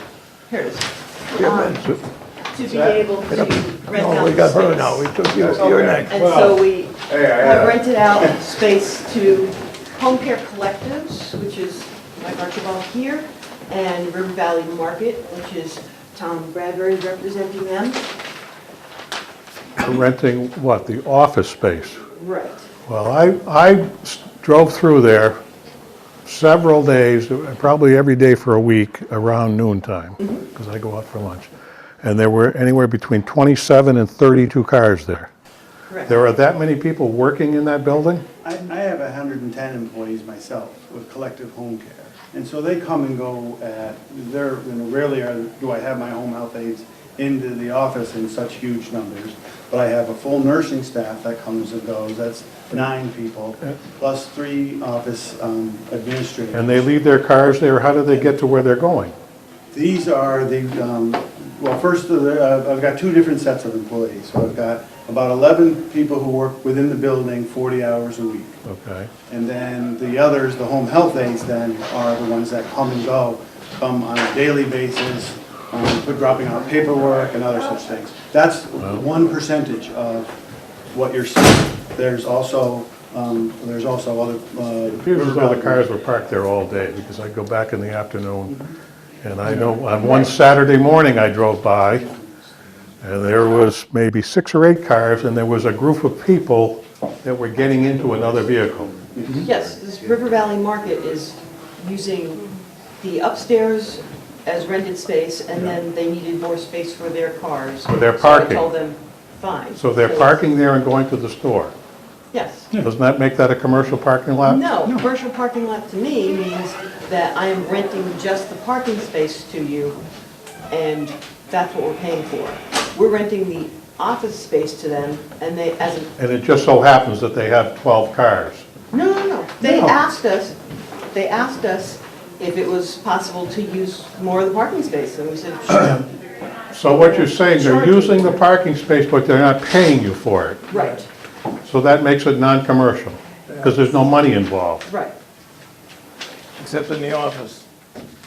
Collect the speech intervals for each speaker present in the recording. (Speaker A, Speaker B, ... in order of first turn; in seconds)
Speaker A: 0.5-1.8, 2.5-5.1, 6.1-18.1, 22.1-22.7, 35.9-36.2, 90.0-90.3, 99.4-102.5, 103.0-110.4, 112.3-112.7, 114.4-120.0, 120.7-126.1, 128.9-130.6, 131.1-136.1, 136.9-138.4, 140.7-141.1, 144.9-145.2
Speaker B: 1.3-2.0, 3.2-6.2, 146.6-147.6
Speaker C: 19.8-22.0, 22.9-25.4, 26.3-31.5, 32.0-35.3, 36.0-38.2, 56.5-59.1, 68.7-69.1, 78.8-79.0, 85.0-88.6, 89.2-92.1, 93.0-99.5, 107.9-108.7, 109.7-111.8, 112.8-114.7, 126.2-128.7, 129.6-130.0, 136.7-140.7, 141.7-144.9
Speaker D: 38.4-56.9, 59.7-68.5, 69.3-80.3, 80.9-85.8